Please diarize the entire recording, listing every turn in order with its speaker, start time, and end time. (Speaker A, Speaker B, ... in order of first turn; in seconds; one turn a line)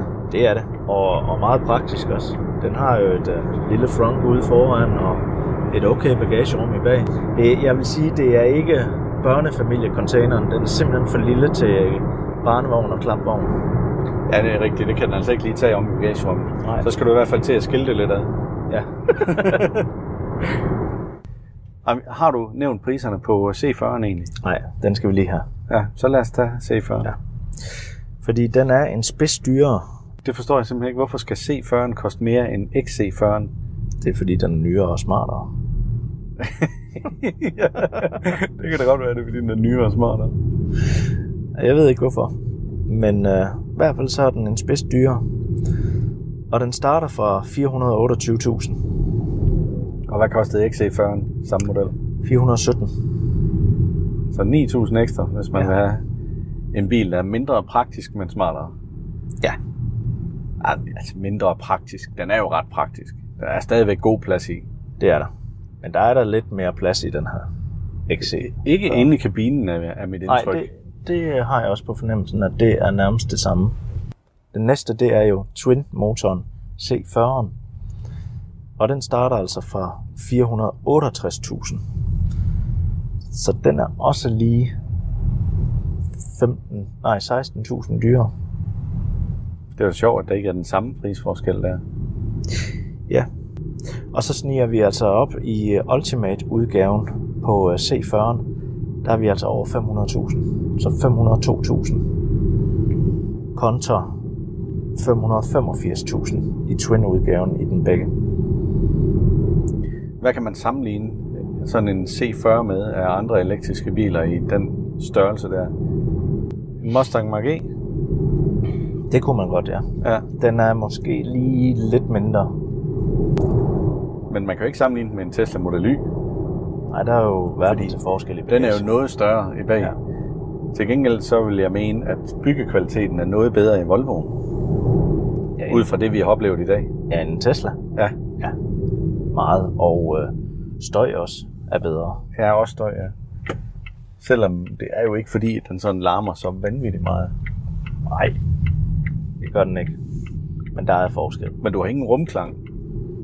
Speaker A: 0.3-13.5
Speaker B: 14.3-18.3
Speaker A: 18.7-19.8
Speaker B: 19.1-19.6
Speaker B: 21.8-24.3
Speaker A: 24.4-25.5
Speaker B: 25.7-27.1
Speaker A: 28.2-29.8
Speaker B: 30.2-33.5
Speaker A: 34.0-35.5
Speaker B: 36.4-40.3
Speaker A: 41.6-42.3
Speaker A: 42.9-45.2
Speaker A: 46.5-48.8
Speaker B: 50.1-51.9
Speaker A: 52.2-52.9
Speaker B: 54.3-56.0
Speaker B: 56.7-58.7
Speaker B: 60.6-64.7
Speaker A: 65.0-65.3
Speaker A: 65.8-67.5
Speaker A: 68.1-69.1
Speaker B: 68.2-70.7
Speaker A: 70.3-73.8
Speaker A: 74.5-77.5
Speaker A: 78.8-81.8
Speaker A: 83.3-84.7
Speaker A: 86.3-88.3
Speaker B: 89.8-91.8
Speaker A: 94.1-98.4
Speaker A: 99.0-102.0
Speaker A: 103.5-104.1
Speaker A: 105.0-108.1
Speaker B: 110.2-115.7
Speaker B: 116.8-117.7
Speaker A: 119.1-122.5
Speaker B: 124.3-126.0
Speaker A: 126.9-128.8
Speaker B: 127.7-127.9
Speaker B: 128.5-129.9
Speaker B: 130.7-134.3
Speaker A: 135.6-135.9
Speaker B: 135.7-136.9
Speaker A: 137.1-137.8
Speaker A: 139.3-142.2
Speaker B: 142.3-143.1
Speaker B: 144.2-147.3
Speaker A: 148.1-148.3
Speaker A: 149.4-149.9
Speaker A: 150.7-151.6
Speaker B: 151.6-152.6